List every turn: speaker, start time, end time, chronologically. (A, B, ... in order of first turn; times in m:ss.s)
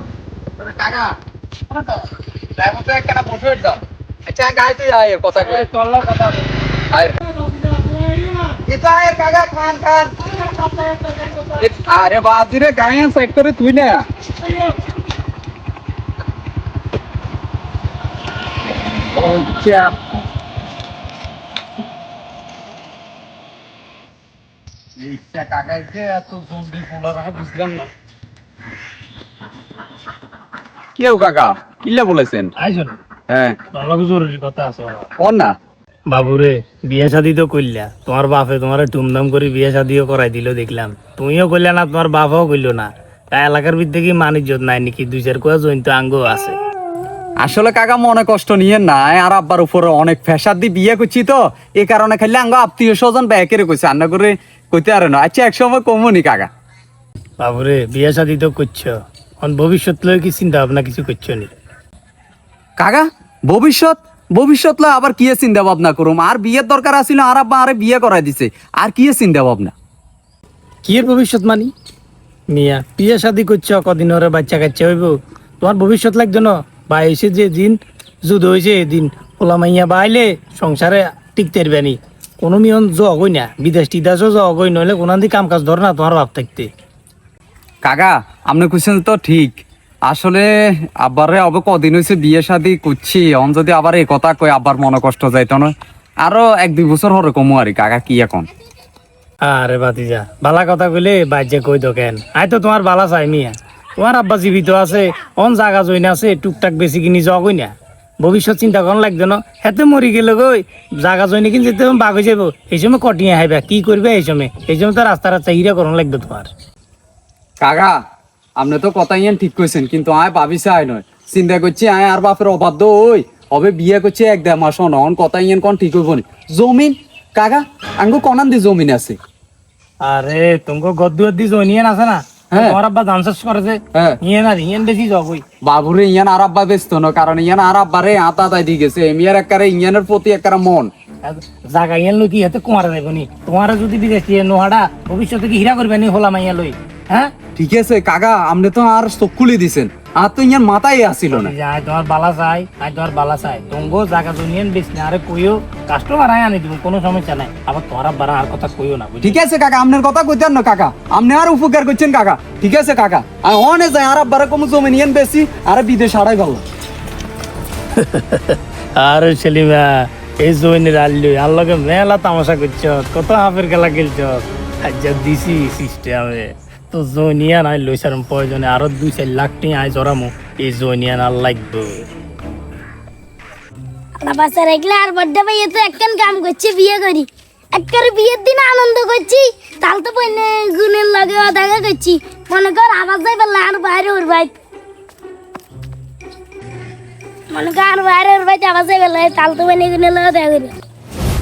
0:00.6-0:01.1 A
0:02.6-0:07.2 A
0:07.9-0:14.0 A
0:19.1-0:20.0 A
0:25.0-0:27.9 A
0:31.0-0:32.5 A
0:32.6-0:33.0 B
0:33.3-0:33.6 A
0:33.7-0:35.1 B
0:35.2-0:35.5 A
0:36.1-0:46.6 B
0:47.4-0:56.5 A
0:57.4-1:01.5 B
1:02.8-1:09.7 A
1:10.8-1:11.7 B
1:12.5-1:26.7 B
1:27.8-1:30.5 A
1:31.0-1:38.5 A
1:39.4-1:56.5 B
1:57.6-1:57.9 A
1:58.6-2:09.2 A
2:10.0-2:15.4 B
2:12.5-2:12.8 A
2:15.6-2:20.9 A
2:21.2-2:27.3 B
2:27.6-2:31.5 A
2:31.3-2:39.4 B
2:39.2-2:46.6 A
2:48.0-3:02.0 B
3:04.2-3:14.5 C
3:17.5-3:20.7 C